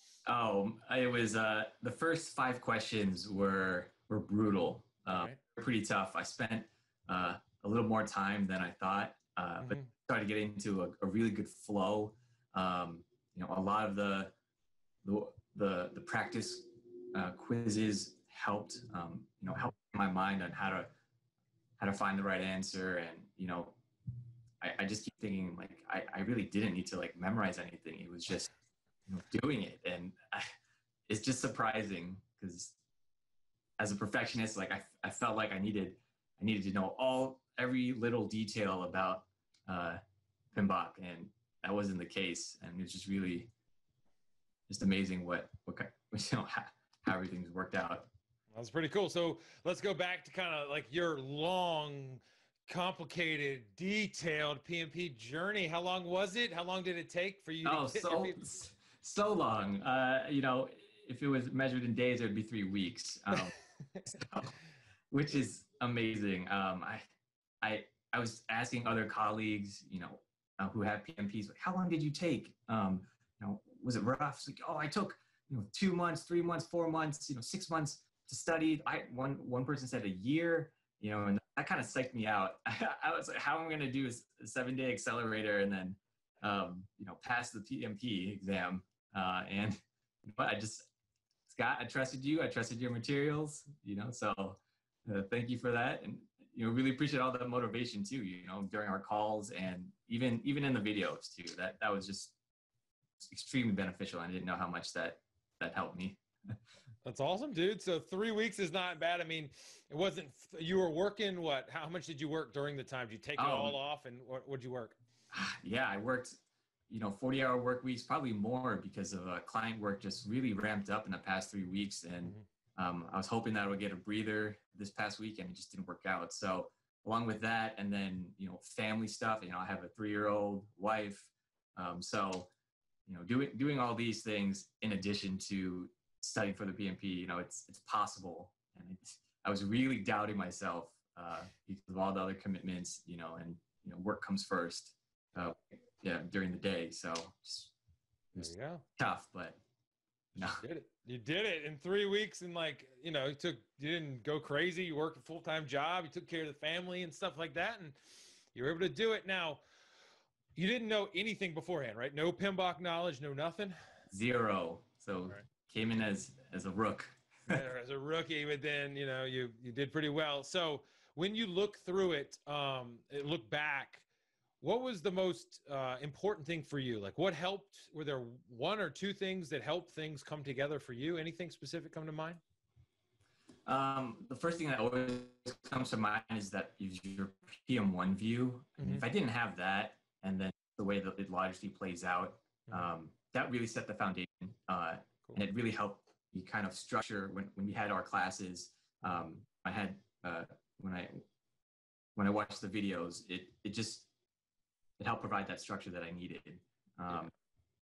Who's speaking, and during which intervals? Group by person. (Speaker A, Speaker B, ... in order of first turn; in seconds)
Speaker A: 0.3-14.3, 15.0-20.9, 21.8-23.8, 24.6-28.5, 29.1-30.5, 31.1-32.8, 33.8-40.0, 40.5-43.5, 44.7-48.1, 57.6-63.5, 64.1-64.5, 65.1-67.0, 67.6-90.9, 91.5-102.4, 103.2-106.6, 113.4-113.8, 115.3-132.5, 133.1-147.7, 148.3-149.6, 150.3-150.6, 164.1-167.6, 183.7-201.2, 202.2-204.1, 205.0-207.3
Speaker B: 5.1-5.4, 9.6-9.9, 48.5-58.4, 107.0-115.0, 148.4-148.8, 150.6-158.0, 158.5-159.6, 160.6-163.8, 167.5-174.1, 174.6-182.4, 188.8-189.1